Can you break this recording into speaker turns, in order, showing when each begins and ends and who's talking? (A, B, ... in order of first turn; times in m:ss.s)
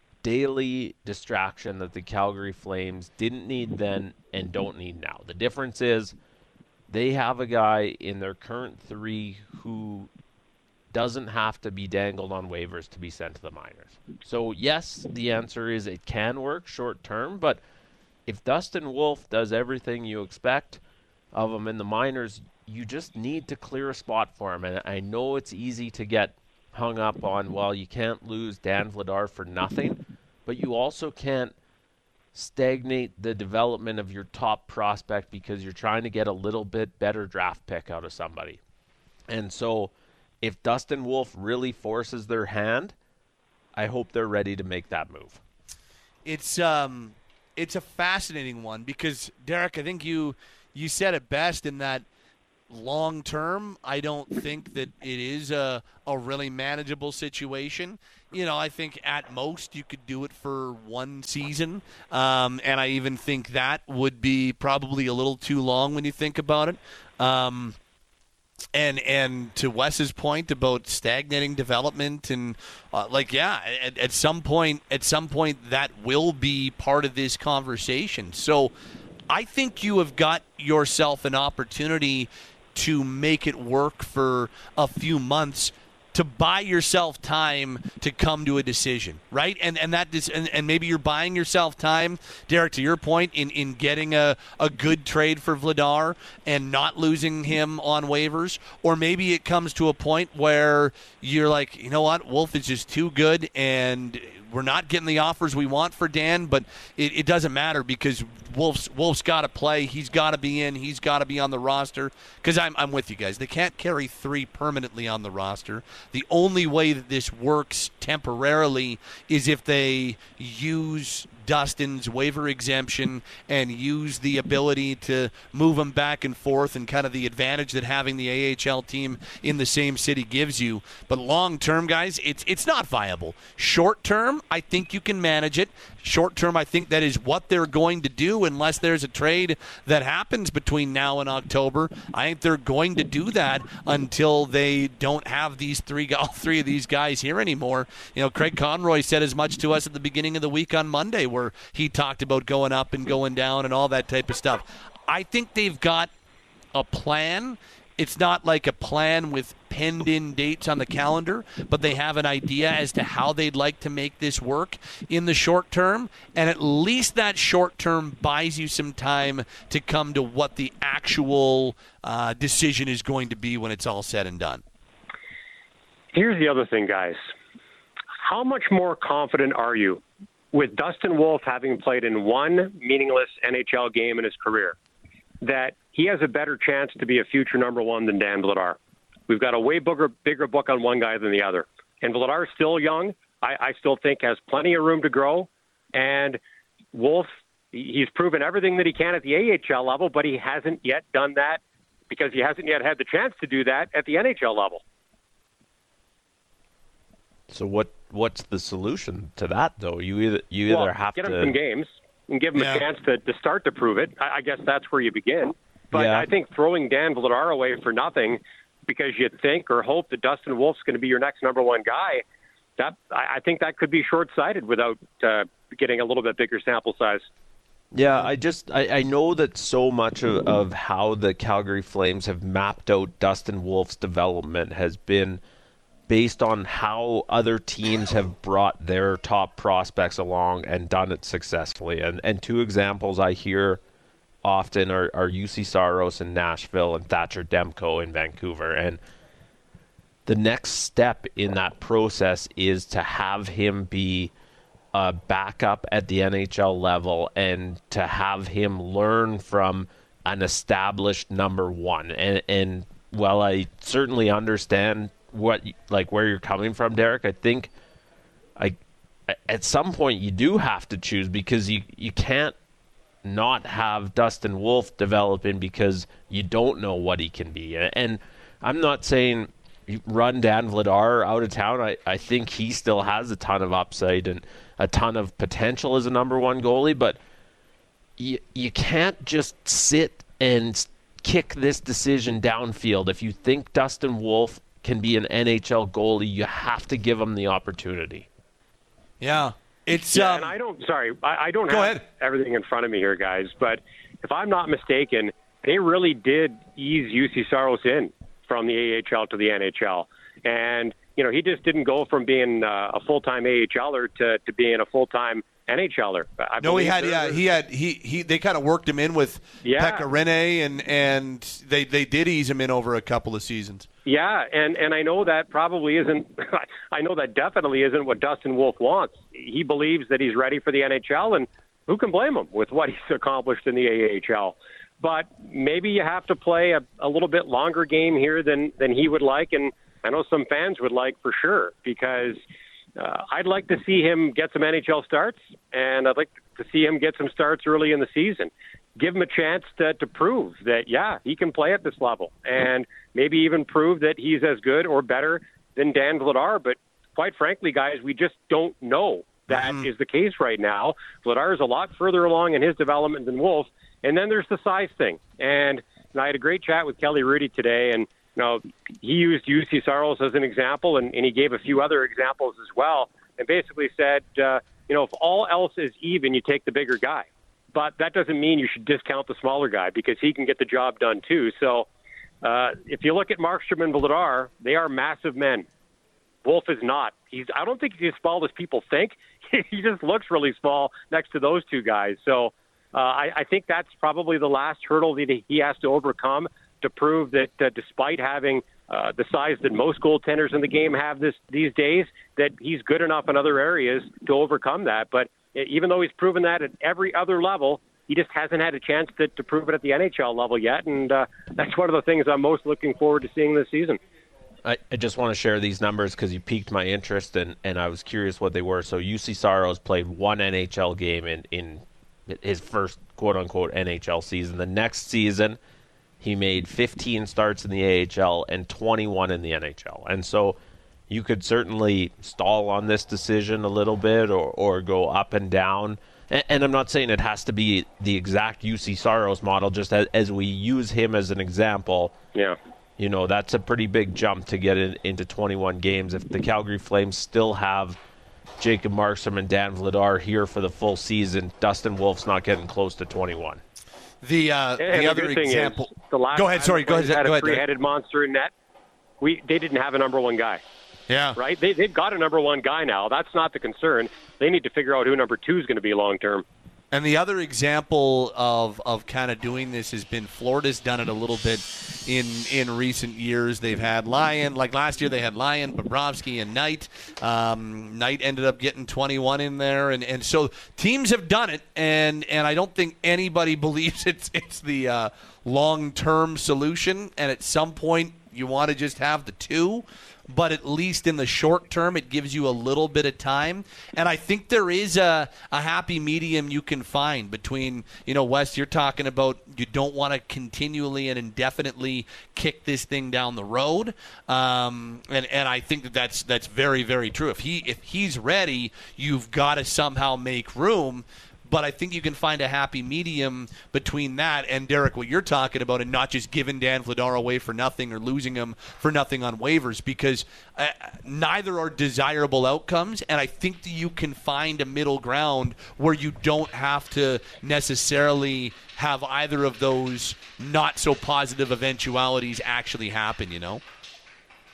0:00.2-0:06.1 A
0:06.9-0:10.1 A
0:10.9-0:17.6 A
0:18.3-0:20.8 A
0:21.3-0:31.6 A
0:32.3-0:38.6 A
0:39.3-0:43.0 A
0:43.8-0:45.4 A
0:46.2-0:52.1 B
0:52.7-1:07.8 B
1:08.7-1:18.7 B
1:19.3-2:36.1 B
2:36.7-2:54.6 B
2:56.1-2:57.2 C
2:58.2-3:04.8 C
3:05.4-3:16.4 C
3:16.9-3:24.8 C
3:27.5-3:31.6 A
3:30.7-3:42.2 C
3:32.6-3:32.8 B
3:35.9-3:36.3 A
3:42.8-3:47.3 C
3:47.9-3:55.4 A
3:56.1-4:03.8 A
4:04.4-4:09.0 A
4:10.3-4:14.3 A
4:14.9-4:27.7 A
4:28.6-4:32.6 A
4:33.2-4:47.2 A
4:48.2-4:58.3 A
4:59.2-5:00.5 B
5:00.1-5:17.4 C
5:01.7-5:02.0 B
5:16.6-5:23.9 B
5:19.6-5:20.0 C
5:24.1-5:42.4 C
5:43.0-6:21.9 C
5:59.5-5:59.9 B
6:22.4-6:25.7 C
6:26.4-6:54.0 C
6:54.6-7:05.6 A
7:06.2-7:10.6 A
7:11.1-7:22.2 A
7:23.0-7:28.0 A
7:28.6-7:33.6 A
7:34.2-7:37.6 B
7:34.8-7:38.5 C
7:39.2-7:40.6 C
7:41.1-7:41.4 B
7:41.4-7:46.4 C
7:46.9-8:53.6 B